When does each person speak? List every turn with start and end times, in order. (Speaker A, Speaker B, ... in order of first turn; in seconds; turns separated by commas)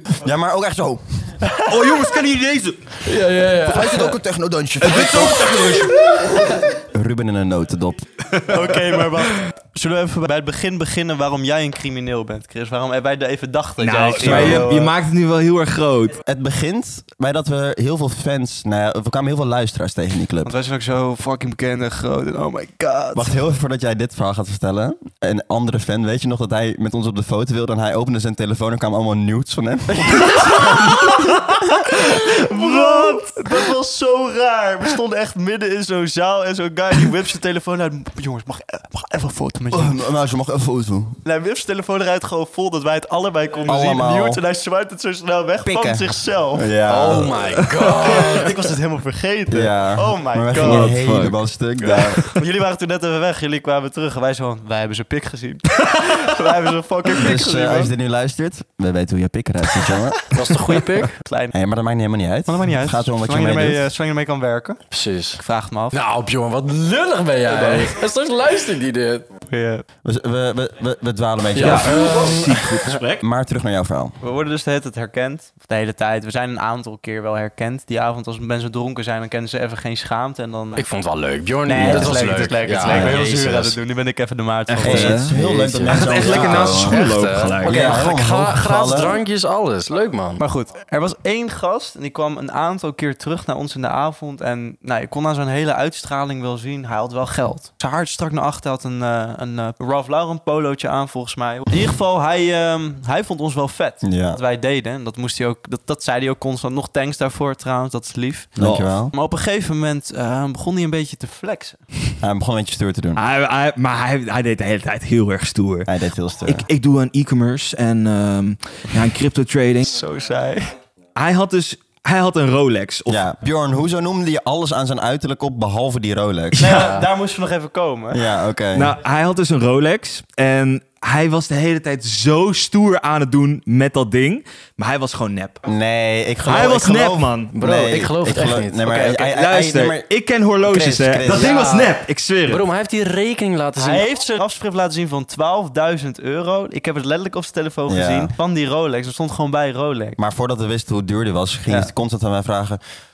Speaker A: 0.2-1.4, Speaker B: 1.7-3.0, Speaker C: 3.0-4.2, Speaker A: 3.6-8.1, Speaker B: 4.8-6.0, Speaker B: 8.3-8.7, Speaker D: 8.5-14.9, Speaker B: 13.8-16.2, Speaker A: 14.2-14.9, Speaker A: 16.1-20.5, Speaker D: 20.4-23.4, Speaker A: 23.1-31.5, Speaker D: 29.9-31.3, Speaker B: 31.3-33.4, Speaker D: 31.9-40.0, Speaker A: 39.7-41.2, Speaker D: 41.2-46.7, Speaker A: 43.6-44.4, Speaker A: 45.6-47.5, Speaker C: 46.9-48.5, Speaker D: 47.8-51.0, Speaker A: 49.5-52.2, Speaker B: 50.6-51.4, Speaker D: 51.8-57.9, Speaker A: 57.1-60.4, Speaker C: 60.3-61.1, Speaker D: 61.1-61.5, Speaker A: 61.5-63.9, Speaker D: 62.5-64.8, Speaker C: 64.9-65.4, Speaker D: 65.4-66.0, Speaker C: 65.9-69.3, Speaker D: 67.5-67.9, Speaker D: 69.5-69.8, Speaker A: 70.0-72.1, Speaker C: 71.5-72.9, Speaker B: 71.6-73.2, Speaker A: 73.2-74.2, Speaker D: 74.2-80.9, Speaker C: 80.8-83.3, Speaker A: 81.7-82.2, Speaker D: 81.7-85.2, Speaker A: 82.8-83.7, Speaker B: 84.7-85.3, Speaker A: 84.8-87.0, Speaker C: 85.1-90.4, Speaker B: 85.9-88.0, Speaker A: 87.6-89.2, Speaker D: 90.4-108.6, Speaker A: 104.0-104.4, Speaker A: 108.6-109.1, Speaker B: 108.6-108.9, Speaker D: 109.1-111.8, Speaker A: 112.2-113.2, Speaker B: 113.2-115.9, Speaker A: 115.9-116.7, Speaker B: 116.5-119.9, Speaker D: 119.8-120.8, Speaker B: 121.2-123.2, Speaker A: 123.1-126.9, Speaker D: 126.6-128.3, Speaker C: 126.7-127.1, Speaker A: 128.1-128.9, Speaker B: 128.7-135.6, Speaker A: 135.7-140.1, Speaker B: 136.4-137.5, Speaker C: 137.6-138.8, Speaker D: 138.8-139.2, Speaker B: 139.1-142.6, Speaker A: 140.6-141.6, Speaker C: 141.3-141.9, Speaker C: 142.5-144.1, Speaker D: 143.8-150.2, Speaker A: 147.9-148.3, Speaker A: 150.2-152.8, Speaker D: 151.7-151.9